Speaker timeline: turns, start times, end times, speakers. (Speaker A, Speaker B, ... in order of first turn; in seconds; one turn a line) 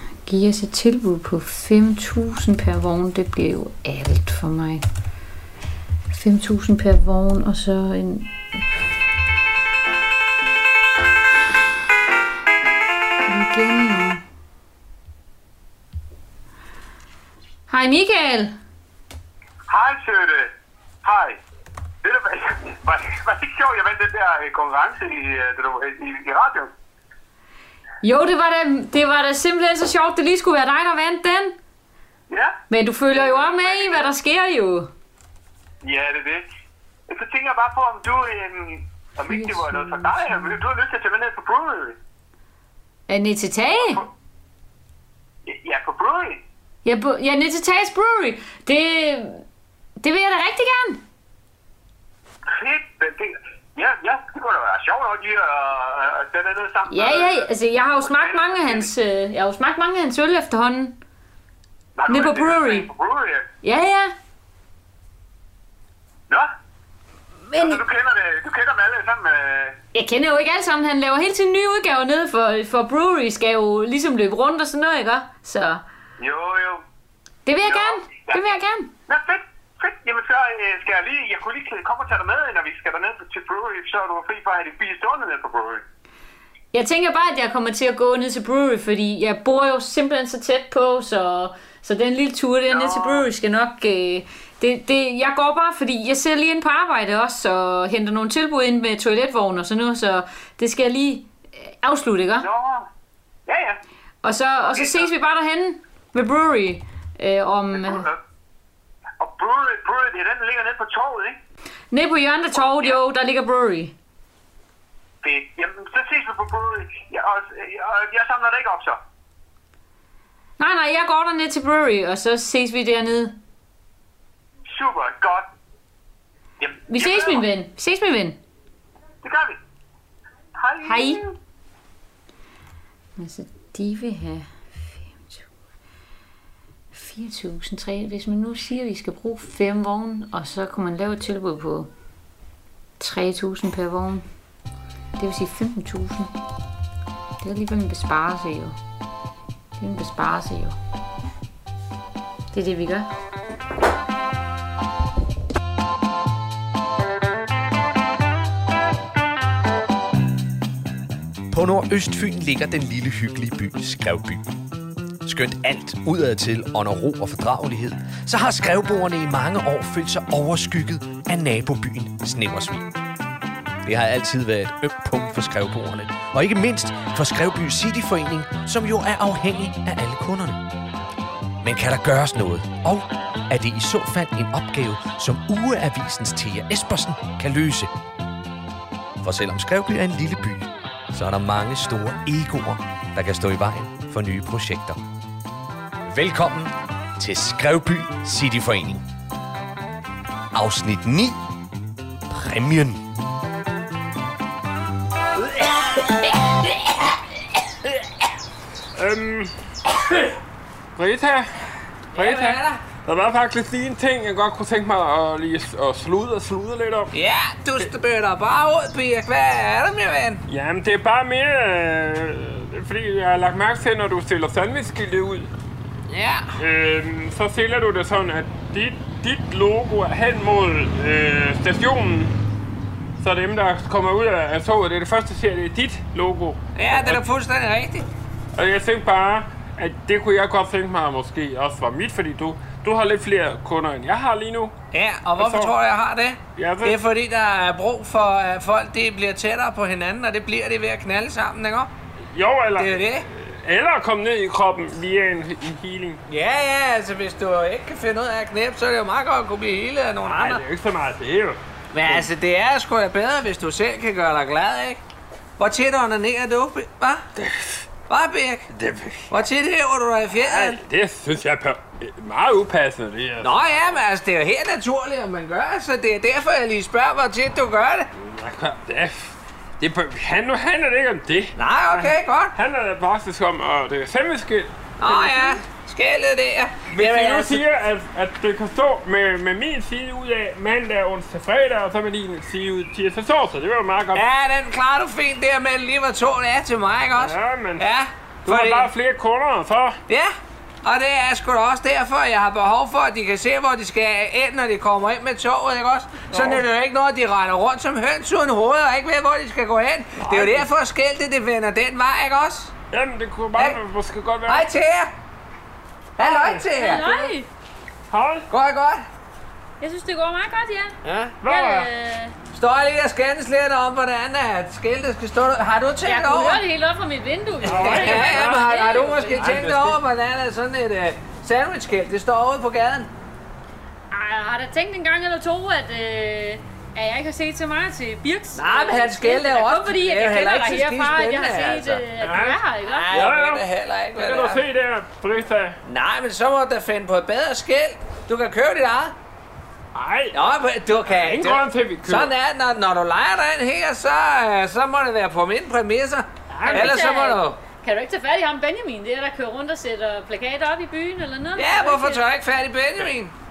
Speaker A: 0.2-4.8
Speaker A: 6.1-8.3
Speaker A: 13.3-14.2
Speaker A: 17.7-18.6
Speaker B: 19.7-20.5
Speaker B: 21.0-21.4
Speaker B: 22.0-26.7
Speaker A: 28.0-31.6
Speaker B: 32.3-32.5
Speaker A: 32.7-34.9
Speaker B: 33.2-34.0
Speaker B: 35.8-36.5
Speaker B: 37.1-42.0
Speaker A: 39.3-40.6
Speaker A: 43.1-44.0
Speaker B: 43.7-44.1
Speaker B: 45.5-46.4
Speaker A: 46.8-49.4
Speaker A: 50.0-51.0
Speaker B: 52.5-57.5
Speaker A: 56.9-61.0
Speaker B: 58.0-58.9
Speaker B: 62.0-63.5
Speaker A: 62.1-62.9
Speaker A: 63.6-64.1
Speaker A: 67.5-67.8
Speaker B: 67.5-69.8
Speaker A: 69.9-75.8
Speaker B: 76.2-76.8
Speaker A: 77.5-78.9
Speaker B: 77.6-78.4
Speaker B: 79.1-85.8
Speaker A: 86.7-102.5
Speaker B: 92.7-93.3
Speaker B: 102.4-102.9
Speaker B: 103.5-103.8
Speaker A: 104.2-108.1
Speaker B: 104.7-105.1
Speaker B: 107.7-108.2
Speaker B: 109.2-111.4
Speaker A: 111.9-113.9
Speaker B: 112.5-113.0
Speaker B: 115.2-119.0
Speaker A: 120.6-123.4
Speaker B: 124.7-125.5
Speaker B: 126.6-127.4
Speaker A: 126.9-128.4
Speaker B: 129.2-129.6
Speaker B: 130.6-131.3
Speaker A: 130.8-131.2
Speaker A: 133.2-135.4
Speaker A: 136.9-141.9
Speaker A: 143.0-144.2
Speaker A: 145.2-146.3
Speaker A: 147.4-148.8
Speaker A: 149.8-150.8
Speaker A: 152.5-153.1
Speaker C: 161.5-164.5
Speaker C: 165.2-172.9
Speaker C: 173.8-180.6
Speaker C: 181.6-187.9
Speaker C: 189.2-195.0
Speaker C: 196.1-199.0
Speaker C: 200.5-201.4
Speaker C: 202.3-203.0
Speaker D: 208.9-209.5
Speaker D: 210.9-211.5
Speaker E: 212.1-212.8
Speaker D: 212.1-217.1
Speaker E: 217.1-220.4
Speaker D: 220.5-225.5
Speaker E: 226.1-226.5
Speaker D: 226.6-232.3
Speaker D: 233.2-237.2
Speaker E: 236.7-238.1
Speaker D: 238.6-244.7
Speaker E: 244.9-251.9
Speaker D: 245.4-245.7
Speaker D: 246.6-247.0
Speaker D: 252.3-256.2
Speaker E: 252.8-253.2
Speaker E: 256.3-260.6
Speaker D: 260.2-262.2
Speaker E: 261.9-265.0
Speaker E: 265.6-267.2
Speaker D: 267.4-267.6
Speaker E: 268.1-268.7
Speaker D: 268.7-269.3
Speaker E: 269.3-270.8
Speaker D: 270.4-273.8
Speaker E: 273.4-278.1
Speaker D: 278.2-285.6
Speaker E: 281.6-282.6
Speaker E: 285.0-287.6
Speaker D: 286.9-294.2
Speaker E: 294.1-298.9
Speaker D: 297.1-297.9
Speaker D: 298.4-300.0
Speaker E: 300.8-312.7
Speaker D: 306.3-306.6
Speaker D: 310.2-310.7
Speaker D: 312.9-314.7
Speaker E: 314.5-315.1
Speaker E: 316.2-317.1
Speaker D: 316.2-316.7
Speaker A: 316.7-317.5
Speaker D: 318.1-318.5
Speaker E: 318.5-319.1
Speaker A: 319.8-322.3
Speaker E: 321.0-321.4
Speaker D: 321.4-321.9
Speaker E: 322.5-326.6
Speaker A: 326.0-329.7
Speaker D: 327.6-330.0
Speaker E: 327.7-333.1
Speaker A: 334.1-343.2
Speaker E: 338.5-342.0
Speaker D: 342.2-345.8
Speaker E: 342.9-344.6
Speaker E: 345.8-349.1
Speaker D: 349.9-350.4
Speaker E: 350.3-357.6
Speaker D: 351.1-352.3
Speaker D: 356.5-357.2
Speaker A: 356.6-362.2
Speaker E: 361.6-363.3